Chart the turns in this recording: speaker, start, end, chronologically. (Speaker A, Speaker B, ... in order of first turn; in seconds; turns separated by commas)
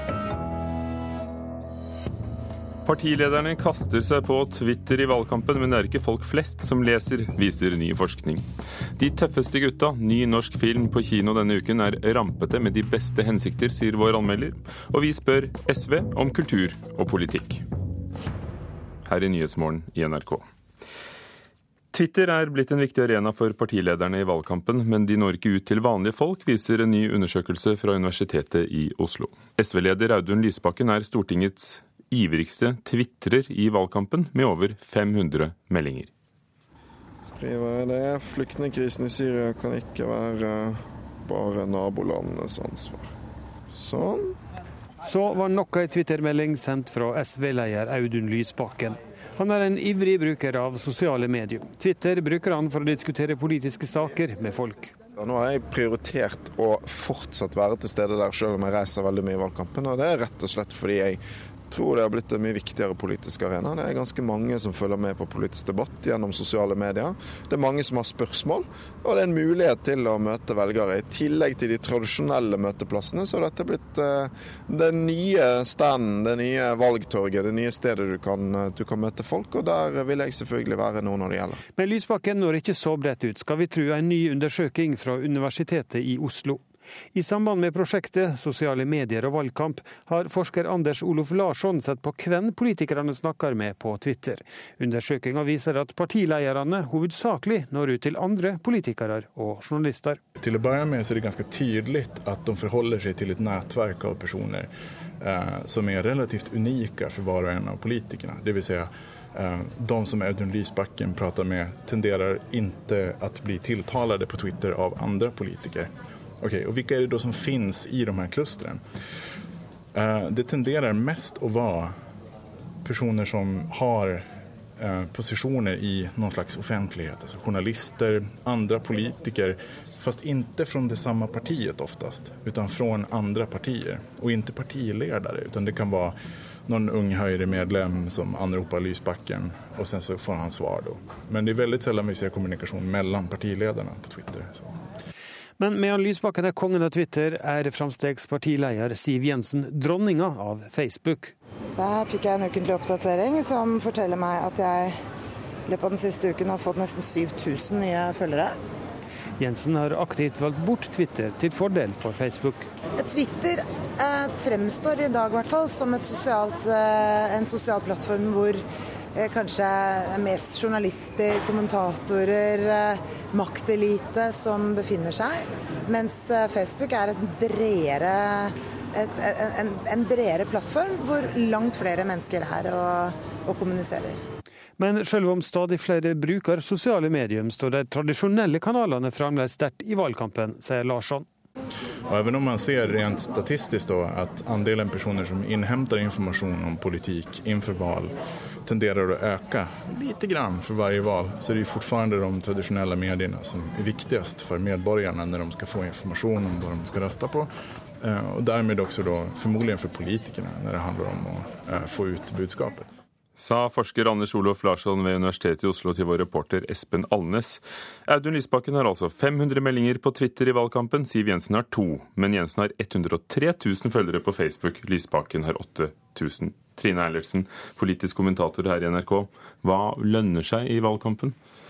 Speaker A: 2.9-8.4, Speaker A: 9.0-17.6, Speaker A: 19.1-20.4, Speaker A: 21.9-36.1, Speaker B: 37.2-43.1, Speaker B: 43.7-44.4, Speaker C: 45.0-55.0, Speaker B: 55.2-81.6, Speaker C: 81.7-100.2, Speaker D: 100.4-104.7, Speaker D: 105.2-118.8, Speaker D: 119.9-122.0, Speaker D: 122.8-144.8, Speaker C: 145.6-151.3, Speaker E: 151.8-155.0, Speaker E: 155.7-158.6, Speaker C: 159.4-162.7, Speaker E: 163.0-168.6, Speaker E: 169.2-184.2, Speaker C: 184.8-191.3, Speaker D: 192.1-207.5, Speaker D: 208.0-212.9, Speaker A: 213.4-231.3